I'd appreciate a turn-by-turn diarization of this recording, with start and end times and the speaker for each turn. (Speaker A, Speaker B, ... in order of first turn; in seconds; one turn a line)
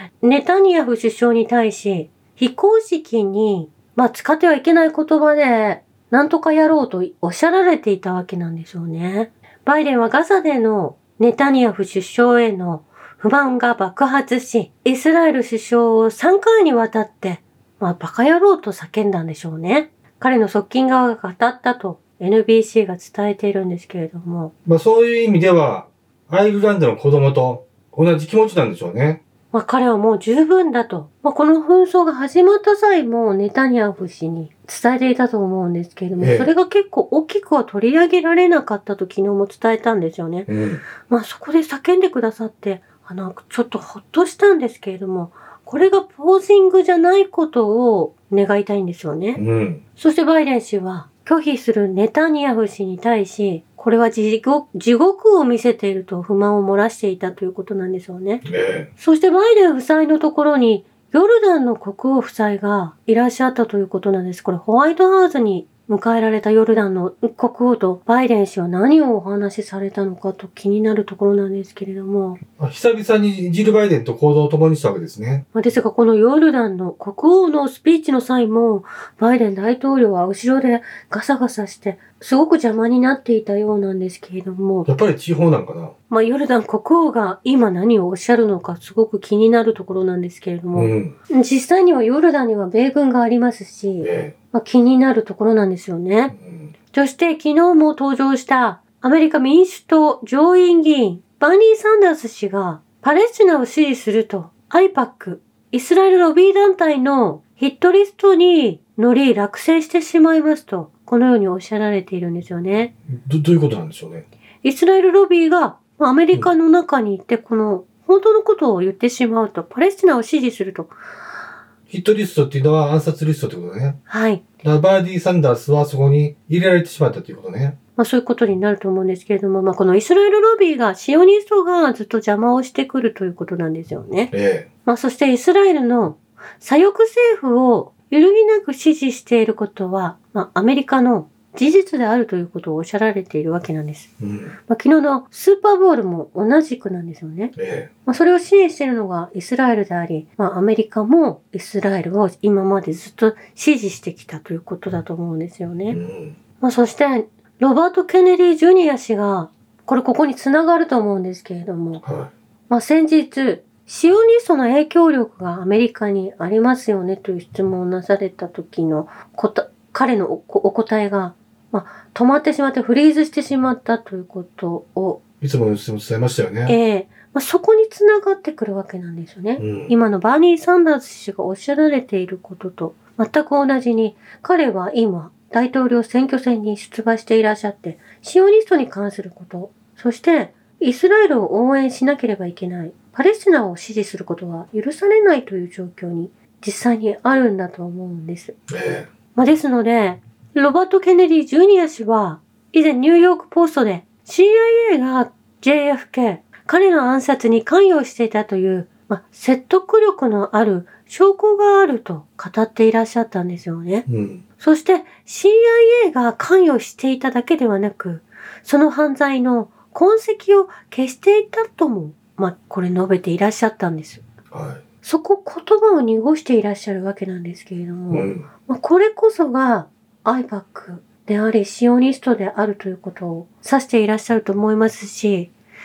Speaker A: 0.2-24.5
Speaker B: 24.6-29.2
Speaker A: 29.5-40.5
Speaker B: 36.2-36.5
Speaker B: 40.5-40.8
Speaker A: 41.1-49.4
Speaker B: 49.4-49.8
Speaker A: 50.0-58.4
Speaker B: 58.5-58.9
Speaker A: 59.0-72.4
Speaker B: 72.6-75.5
Speaker A: 75.5-84.9
Speaker B: 84.9-85.9
Speaker A: 86.1-96.3
Speaker B: 90.8-91.2
Speaker B: 94.0-94.4
Speaker B: 96.3-96.7
Speaker A: 96.9-112.9
Speaker B: 113.1-114.3
Speaker A: 114.6-120.9
Speaker B: 121.9-124.0
Speaker A: 124.1-124.4
Speaker B: 124.6-127.8
Speaker A: 128.0-134.3
Speaker B: 134.3-134.7
Speaker A: 134.8-144.1
Speaker B: 144.2-144.6
Speaker A: 144.7-147.6
Speaker B: 147.6-147.9
Speaker A: 148.1-156.0
Speaker B: 155.9-156.4
Speaker A: 156.6-162.0
Speaker B: 162.0-162.3
Speaker A: 162.7-175.2
Speaker B: 175.4-176.8
Speaker A: 176.7-198.6
Speaker B: 179.6-179.9
Speaker B: 198.7-199.1
Speaker A: 199.3-214.1
Speaker B: 214.1-214.4
Speaker A: 214.6-224.2
Speaker B: 224.5-224.8
Speaker A: 225.0-235.5
Speaker B: 228.1-228.5